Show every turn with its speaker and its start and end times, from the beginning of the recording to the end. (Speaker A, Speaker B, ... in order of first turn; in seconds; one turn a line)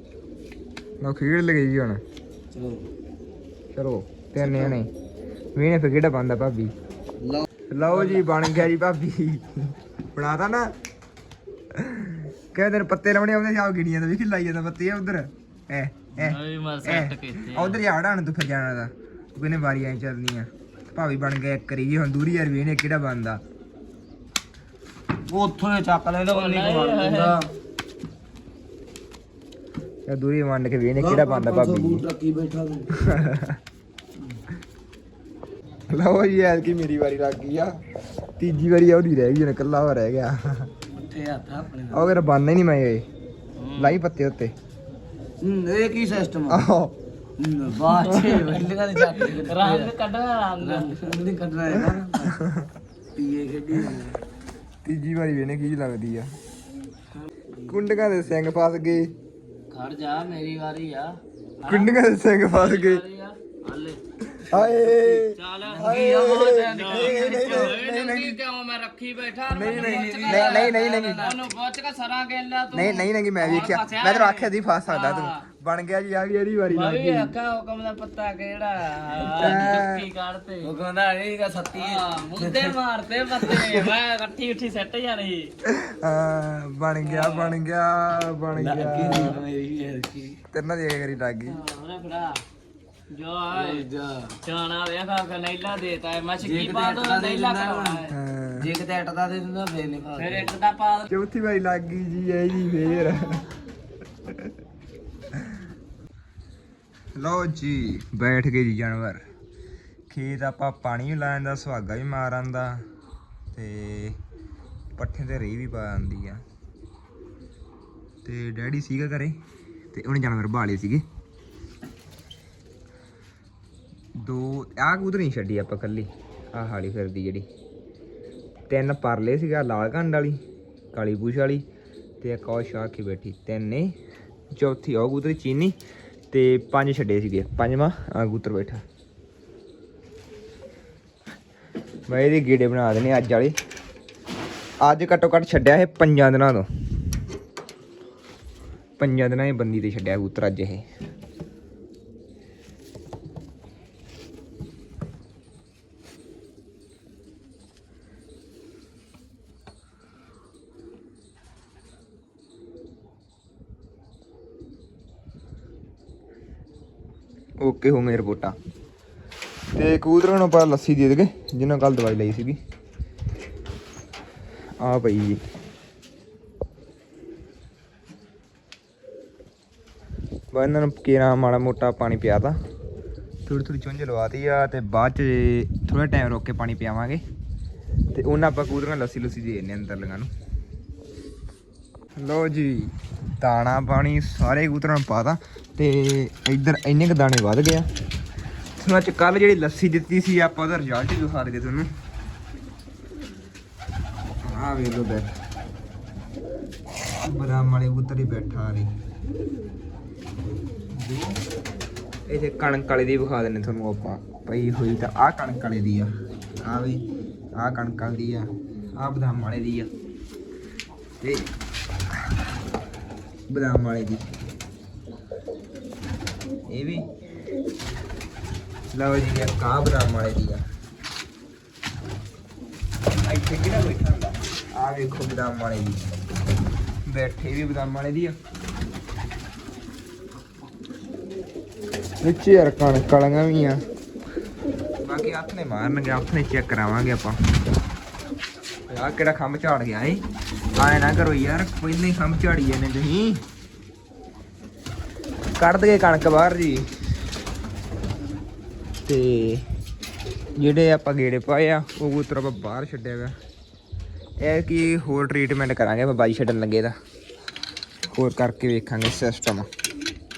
Speaker A: 1.0-2.0
Speaker B: 2.5-2.9
Speaker A: 3.7-4.9
Speaker B: 4.4-4.8
Speaker A: 5.5-6.7
Speaker B: 7.2-8.2
Speaker A: 7.7-10.7
Speaker A: 11.8-23.4
Speaker C: 16.1-17.8
Speaker B: 25.3-27.5
Speaker C: 26.3-27.4
Speaker A: 30.1-32.0
Speaker B: 31.0-33.1
Speaker A: 33.0-33.6
Speaker A: 35.9-37.7
Speaker A: 38.4-40.7
Speaker B: 40.9-42.1
Speaker A: 41.9-43.0
Speaker C: 43.6-44.0
Speaker A: 43.8-44.5
Speaker B: 45.4-46.6
Speaker A: 46.5-47.0
Speaker B: 47.4-49.9
Speaker A: 48.0-48.6
Speaker C: 49.2-51.0
Speaker B: 50.6-52.3
Speaker A: 51.9-52.7
Speaker B: 53.1-54.2
Speaker A: 54.8-56.3
Speaker B: 57.1-57.9
Speaker A: 57.7-59.1
Speaker C: 59.7-62.0
Speaker A: 61.7-63.0
Speaker C: 62.5-64.0
Speaker A: 64.3-68.4
Speaker B: 64.5-67.8
Speaker C: 65.3-75.4
Speaker A: 69.5-71.2
Speaker B: 69.6-71.4
Speaker A: 72.7-77.3
Speaker C: 76.7-80.7
Speaker B: 79.1-79.8
Speaker A: 79.4-80.0
Speaker B: 80.6-82.8
Speaker C: 81.8-85.5
Speaker B: 83.3-83.9
Speaker A: 85.7-89.4
Speaker C: 87.0-87.6
Speaker B: 88.5-90.4
Speaker A: 90.5-91.6
Speaker C: 91.5-92.4
Speaker C: 93.1-93.9
Speaker B: 93.5-94.4
Speaker C: 94.4-98.1
Speaker B: 96.4-98.0
Speaker A: 98.1-98.7
Speaker B: 98.6-100.5
Speaker C: 100.1-101.1
Speaker A: 101.1-103.4
Speaker A: 107.2-109.2
Speaker A: 110.1-112.8
Speaker A: 113.5-114.2
Speaker A: 115.0-116.4
Speaker A: 118.2-119.4
Speaker A: 119.9-121.0
Speaker A: 124.2-127.5
Speaker A: 128.7-130.4
Speaker A: 130.9-131.7
Speaker A: 132.2-133.9
Speaker A: 134.5-135.8
Speaker A: 136.3-138.8
Speaker A: 142.1-143.6
Speaker A: 144.8-146.7
Speaker A: 149.0-150.8
Speaker A: 167.6-168.6
Speaker A: 169.8-172.6
Speaker A: 174.8-175.4
Speaker A: 180.5-182.6
Speaker A: 183.5-187.2
Speaker A: 188.1-190.3
Speaker A: 192.2-197.9
Speaker A: 198.8-201.9
Speaker A: 204.5-205.3
Speaker A: 207.2-208.9
Speaker A: 211.0-211.4
Speaker A: 212.3-216.1
Speaker A: 216.6-217.0
Speaker A: 217.6-219.9
Speaker A: 221.2-221.5
Speaker A: 223.5-224.3
Speaker A: 226.7-227.1
Speaker A: 228.9-230.6
Speaker A: 233.2-236.0
Speaker A: 237.1-238.4
Speaker A: 242.2-243.8
Speaker A: 245.0-247.4
Speaker A: 248.9-250.2
Speaker A: 250.8-253.4
Speaker A: 255.6-256.9
Speaker A: 259.1-259.6
Speaker A: 260.6-263.3
Speaker A: 264.4-266.9
Speaker A: 268.1-269.7